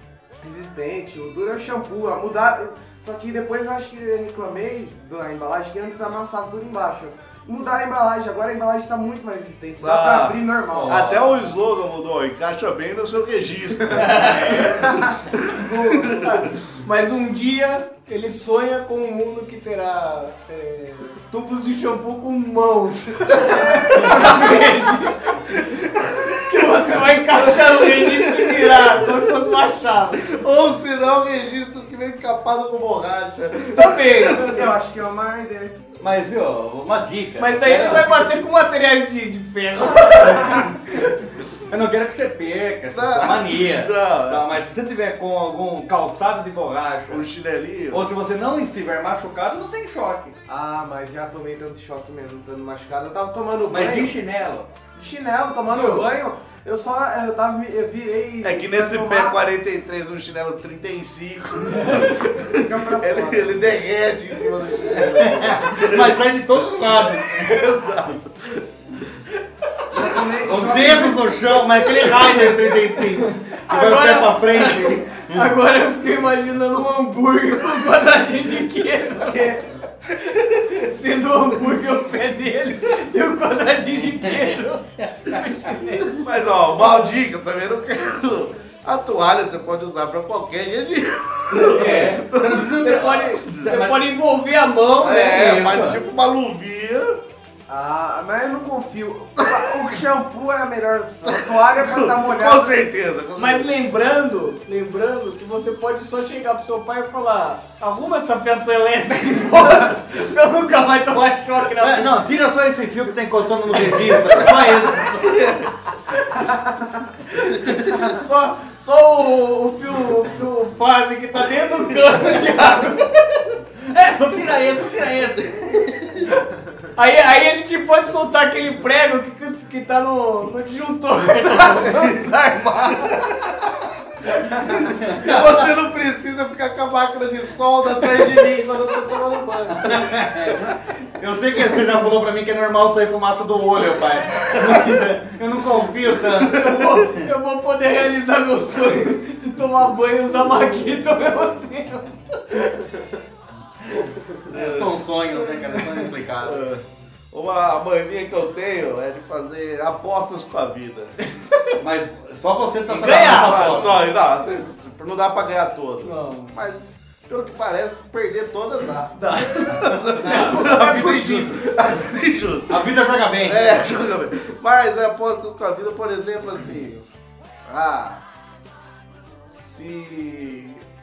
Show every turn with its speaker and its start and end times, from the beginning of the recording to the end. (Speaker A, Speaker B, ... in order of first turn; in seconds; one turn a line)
Speaker A: 0.4-11.1
Speaker B: 9.8-16.4
Speaker C: 10.7-11.2
Speaker C: 13.9-14.7
Speaker D: 14.1-14.8
Speaker A: 14.8-15.1
Speaker A: 15.6-16.2
Speaker D: 16.1-25.5
Speaker B: 23.5-24.6
Speaker B: 25.5-29.3
Speaker D: 26.4-30.3
Speaker B: 30.2-34.7
Speaker D: 33.7-34.6
Speaker A: 34.4-35.8
Speaker C: 36.0-38.2
Speaker D: 37.4-41.1
Speaker C: 41.7-47.3
Speaker B: 42.9-44.6
Speaker B: 47.1-48.0
Speaker C: 47.9-50.4
Speaker A: 50.5-54.1
Speaker C: 53.7-54.7
Speaker A: 54.9-59.4
Speaker D: 55.7-56.1
Speaker B: 58.4-68.6
Speaker D: 61.7-62.2
Speaker A: 62.5-63.7
Speaker C: 64.9-67.7
Speaker A: 69.9-71.4
Speaker C: 70.4-75.5
Speaker D: 72.0-79.6
Speaker B: 80.2-80.7
Speaker D: 80.2-86.2
Speaker C: 84.0-85.4
Speaker B: 86.1-92.8
Speaker D: 91.6-95.6
Speaker C: 91.7-94.1
Speaker B: 93.5-93.7
Speaker B: 95.0-97.2
Speaker C: 95.2-96.0
Speaker A: 97.7-102.8
Speaker B: 99.5-99.9
Speaker B: 101.2-103.7
Speaker D: 103.3-112.2
Speaker C: 111.8-115.5
Speaker B: 113.9-115.7
Speaker D: 116.1-116.6
Speaker D: 117.3-123.5
Speaker B: 121.9-122.2
Speaker C: 123.9-126.3
Speaker D: 126.9-133.3
Speaker B: 131.8-132.1
Speaker B: 133.0-133.7
Speaker D: 134.2-134.9
Speaker C: 134.8-135.7
Speaker B: 135.1-140.5
Speaker C: 139.7-147.3
Speaker D: 146.5-153.1
Speaker C: 153.8-156.7
Speaker B: 153.9-155.0
Speaker B: 156.4-161.5
Speaker C: 161.8-164.0
Speaker D: 162.9-163.9
Speaker B: 163.0-172.8
Speaker D: 166.0-166.5
Speaker D: 169.2-171.6
Speaker C: 170.2-170.7
Speaker C: 172.7-173.8
Speaker B: 173.4-177.0
Speaker B: 177.7-178.2
Speaker B: 179.5-180.8